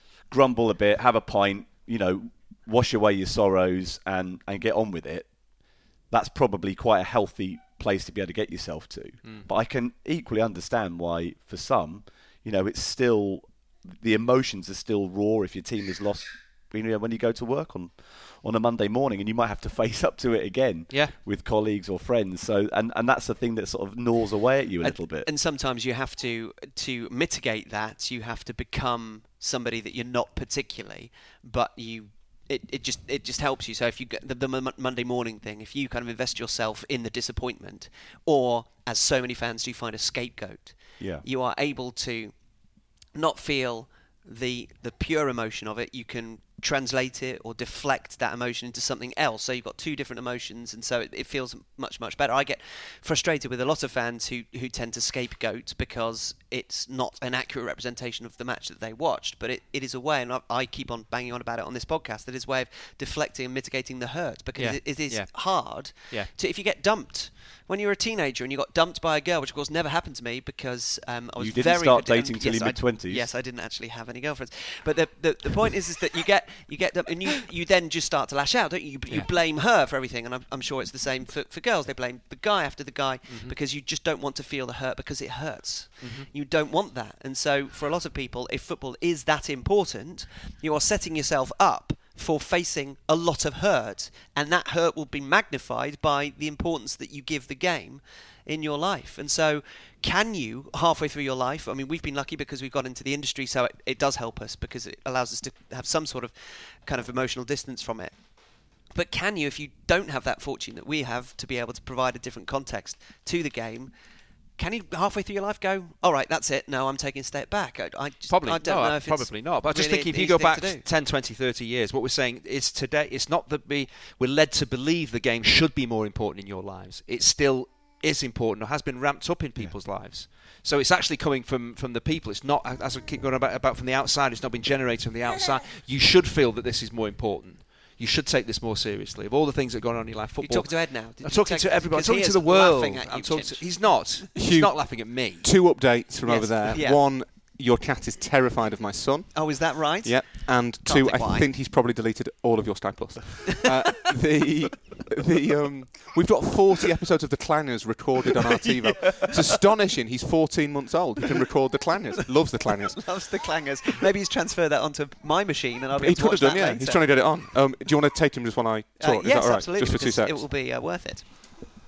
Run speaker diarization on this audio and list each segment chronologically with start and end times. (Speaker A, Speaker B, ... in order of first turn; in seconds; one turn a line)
Speaker A: 0.3-25.3
Speaker B: 20.9-21.1
Speaker C: 24.8-113.9
Speaker A: 41.0-41.2
Speaker B: 64.5-66.3
Speaker A: 71.4-73.3
Speaker B: 83.3-83.5
Speaker B: 86.0-86.3
Speaker C: 114.5-120.8
Speaker B: 118.3-145.5
Speaker C: 140.4-144.1
Speaker D: 144.3-163.2
Speaker C: 146.2-147.0
Speaker C: 149.3-151.5
Speaker C: 162.9-167.2
Speaker D: 166.0-170.4
Speaker C: 169.0-171.7